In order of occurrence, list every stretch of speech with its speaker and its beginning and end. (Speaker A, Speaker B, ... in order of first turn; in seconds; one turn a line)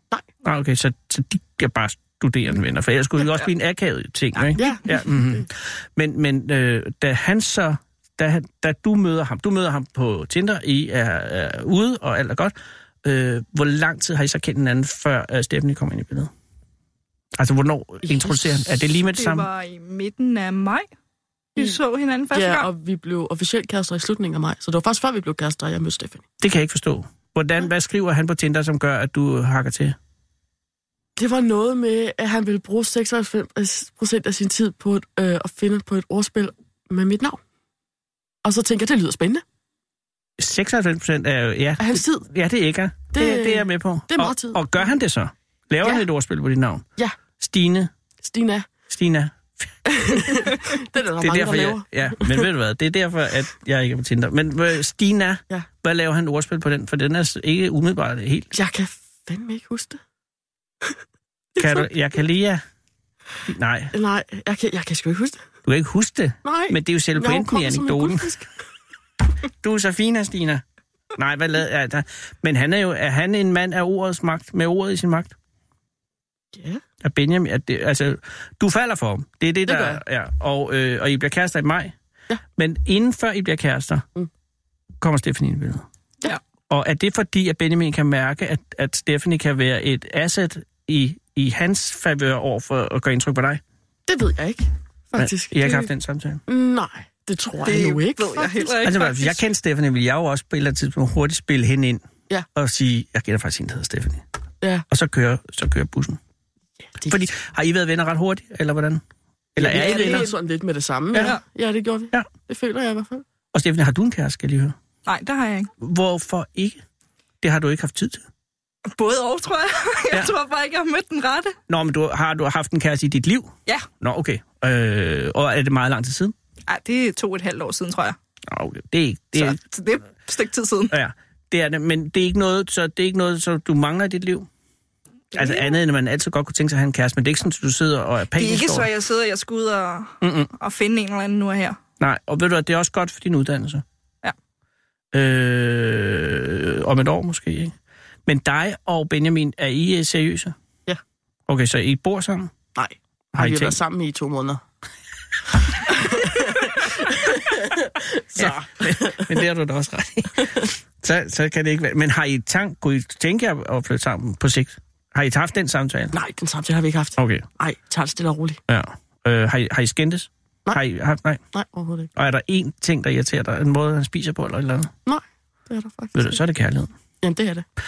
Speaker A: 0.4-16.3
Speaker B: 4.3-5.5
Speaker A: 17.4-19.5
Speaker B: 18.1-18.6
Speaker C: 19.1-20.9
Speaker C: 21.6-22.7
Speaker B: 22.3-26.2
Speaker A: 26.4-29.9
Speaker B: 31.2-37.4
Speaker B: 38.4-39.4
Speaker A: 40.4-46.8
Speaker B: 41.8-42.2
Speaker B: 43.1-44.6
Speaker A: 47.4-47.9
Speaker B: 48.2-48.7
Speaker A: 48.9-49.7
Speaker B: 49.9-52.5
Speaker A: 51.2-58.5
Speaker B: 58.5-60.0
Speaker B: 61.5-61.9
Speaker A: 61.6-62.6
Speaker A: 63.5-63.9
Speaker B: 63.9-65.4
Speaker A: 65.6-68.3
Speaker B: 66.4-68.5
Speaker A: 69.6-70.6
Speaker A: 71.2-75.3
Speaker B: 76.5-76.8
Speaker A: 77.0-81.9
Speaker B: 79.7-80.0
Speaker A: 82.6-84.0
Speaker A: 85.0-85.8
Speaker A: 86.7-93.6
Speaker B: 94.1-95.9
Speaker A: 95.2-96.4
Speaker B: 96.5-98.8
Speaker C: 97.6-99.4
Speaker A: 98.8-102.0
Speaker A: 102.5-104.2
Speaker A: 104.9-106.2
Speaker B: 106.9-107.2
Speaker A: 107.1-109.0
Speaker A: 109.5-110.3
Speaker B: 109.6-113.2
Speaker C: 109.7-110.3
Speaker A: 113.5-114.7
Speaker C: 115.0-115.7
Speaker A: 115.8-116.8
Speaker A: 117.4-118.2
Speaker C: 118.9-121.5
Speaker A: 121.7-126.3
Speaker C: 126.7-128.2
Speaker A: 128.5-129.6
Speaker C: 129.3-130.9
Speaker A: 130.9-134.5
Speaker C: 135.3-135.8
Speaker A: 135.3-138.9
Speaker C: 138.3-141.8
Speaker A: 140.2-140.5
Speaker A: 142.0-143.8
Speaker A: 145.1-147.7
Speaker A: 148.3-150.5
Speaker A: 151.5-152.5
Speaker B: 152.8-154.6
Speaker A: 153.3-153.8
Speaker B: 155.8-159.3
Speaker A: 158.3-166.2
Speaker B: 166.1-168.6
Speaker A: 167.2-167.4
Speaker A: 168.7-171.4
Speaker B: 171.5-172.1
Speaker A: 172.2-174.9
Speaker B: 175.1-176.4
Speaker A: 176.1-176.9
Speaker B: 177.2-177.6